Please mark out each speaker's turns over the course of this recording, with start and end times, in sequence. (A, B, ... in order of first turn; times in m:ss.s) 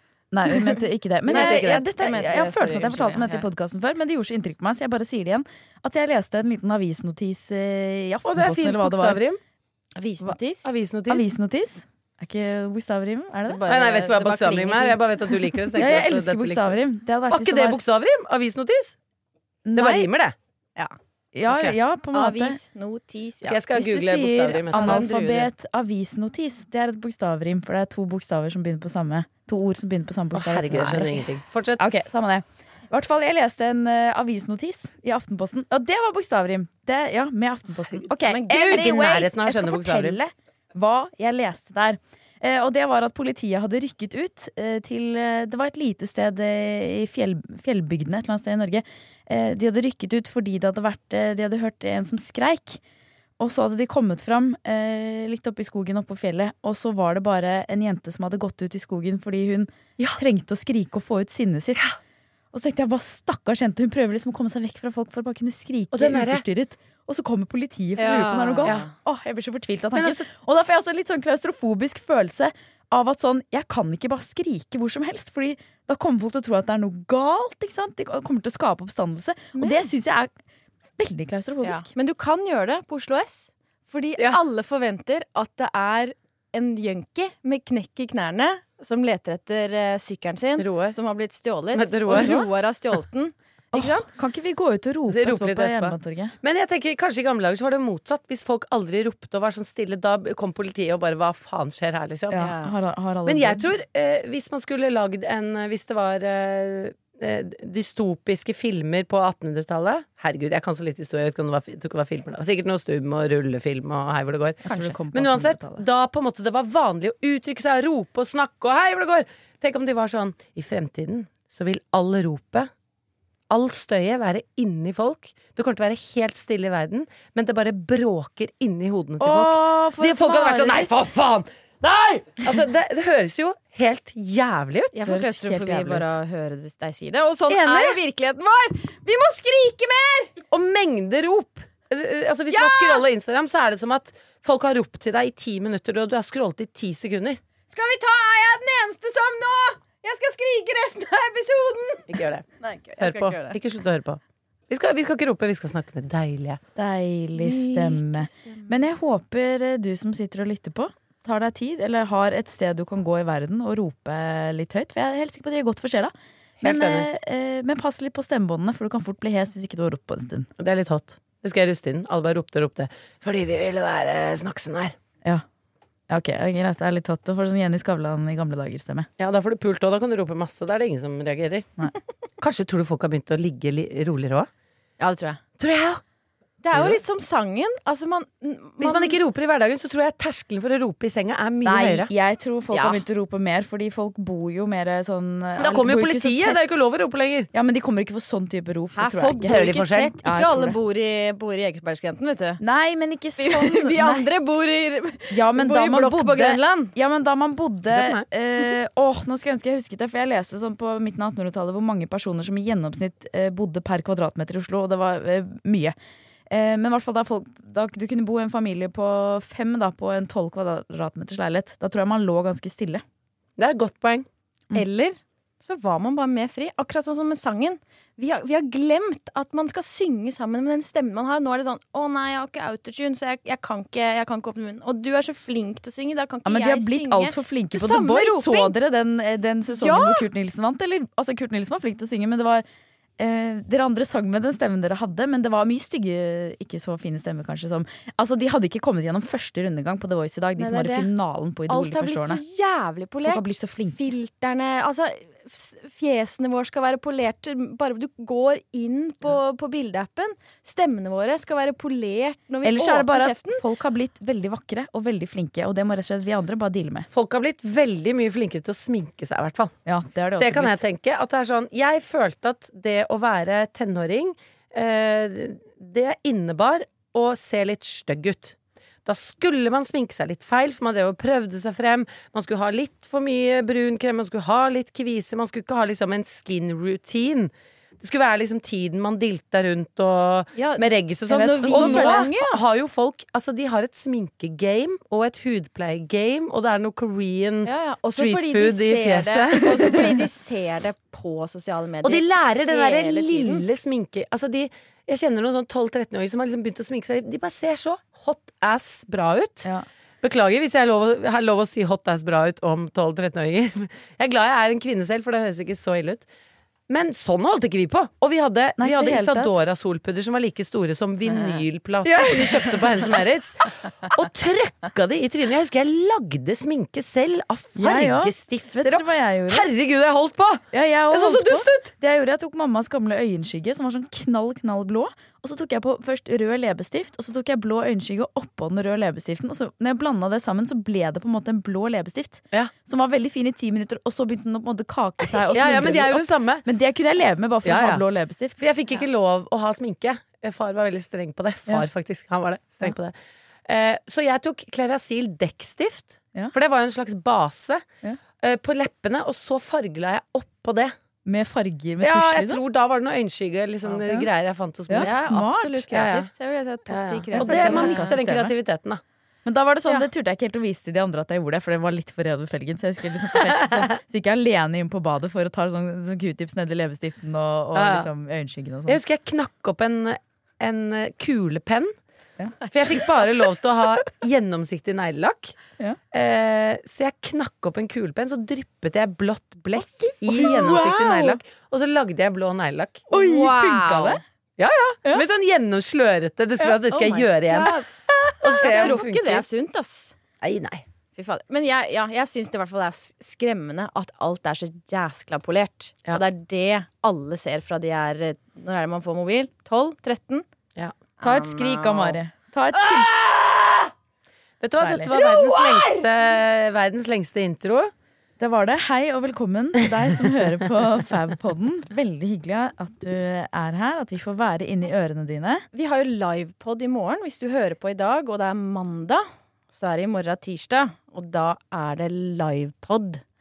0:00.3-0:09.2 A
0:01.3-0:01.9 B
0:01.3-0:03.4 C
0:08.2-0:09.4 B
0:10.0-0:10.7 C
0:10.2-0:11.3 B
0:11.1-0:13.6 A
0:13.5-0:15.6 C
0:13.7-0:16.8 B
0:15.8-0:17.8 A
0:17.3-0:19.0 B
0:19.6-0:20.1 A
0:19.8-0:20.3 B
0:21.3-0:22.6 A
0:22.1-0:23.6 C
0:23.4-0:25.1 B
0:23.7-0:31.2 A
0:24.7-0:25.5 C
0:30.3-0:31.8 B
0:31.8-0:52.8 A
0:38.2-0:39.3 C
0:38.5-0:40.2 B
0:53.4-1:01.8 A
1:02.5-1:20.3 A
1:05.9-1:06.4 B
1:08.0-1:08.9 C
1:09.9-1:10.2 B
1:19.5-1:19.9 C
1:21.0-1:21.9 A
1:21.6-1:34.0 C
1:30.6-1:30.9 B
1:31.7-1:32.5 B
1:33.7-1:36.3 A
1:35.1-1:42.5 B
1:42.3-1:43.7 A
1:42.3-1:42.7 C
1:43.2-2:02.7 B
1:54.6-1:55.8 A
2:03.5-2:15.1 B
2:09.2-2:11.1 A
2:14.9-2:20.3 C
2:15.0-2:16.1 A
2:17.5-2:18.0 B
2:20.5-2:27.4 B
2:22.5-2:23.0 C
2:27.7-2:33.6 C
2:32.1-2:32.4 B
2:33.0-2:36.6 B
2:36.7-2:50.5 A
2:37.4-2:38.8 C
2:46.6-2:47.1 B
2:50.6-2:54.9 B
2:56.1-2:59.1 A
2:59.2-3:01.8 B
3:02.4-3:04.5 B
3:05.0-3:05.4 C
3:05.6-3:06.0 B
3:06.6-3:09.2 C
3:06.7-3:07.0 B
3:08.8-3:12.1 B
3:11.6-3:16.6 A
3:12.7-3:13.0 C
3:15.6-3:17.5 B
3:17.5-3:19.6 A
3:19.0-3:22.6 C
3:19.5-3:20.1 B
3:20.2-3:20.8 A
3:22.6-3:24.2 A
3:23.4-3:26.9 C
3:25.3-3:35.9 A
3:27.9-3:28.2 B
3:36.5-3:43.0 A
3:43.6-3:44.2 B
3:44.7-3:58.7 C
3:56.4-4:02.6 A
3:59.7-4:00.2 C
4:03.2-4:12.4 A
4:10.6-4:11.1 C
4:11.7-4:23.6 C
4:13.2-4:14.0 A
4:22.6-4:27.1 A
4:27.1-4:29.7 B
4:29.8-4:30.8 A
4:30.4-5:00.2 B
4:50.5-4:52.6 C
4:51.6-4:52.3 A
4:57.6-5:03.6 C
5:02.0-5:09.7 B
5:10.2-5:16.3 B
5:16.9-5:31.9 B
5:18.8-5:19.5 A
5:22.0-5:23.0 A
5:27.8-5:29.7 A
5:30.7-5:48.6 A
5:45.5-5:46.6 B
5:47.6-5:48.0 B
5:48.6-5:53.1 B
5:53.6-5:57.8 B
5:58.4-6:00.9 B
6:01.2-6:02.6 A
6:02.0-6:05.2 B
6:04.9-6:06.1 A
6:05.0-6:08.2 C
6:06.9-6:09.0 B
6:07.3-6:08.5 A
6:09.4-6:19.0 A
6:17.7-6:18.1 B
6:18.9-6:21.9 B
6:22.4-6:23.0 A
6:22.7-6:25.6 B
6:26.1-6:33.0 B
6:30.0-6:31.4 A
6:33.1-6:34.2 C
6:33.1-6:34.2 A
6:34.6-6:37.7 B
6:36.9-6:40.2 C
6:38.4-6:39.4 B
6:38.6-6:39.0 A
6:40.4-6:40.8 B
6:41.2-6:50.4 C
6:51.2-6:52.2 C
6:51.2-6:53.1 A
6:52.7-6:53.9 B
6:54.6-6:57.9 B
6:54.8-6:56.0 A
6:58.4-7:05.6 A
7:05.7-7:13.2 C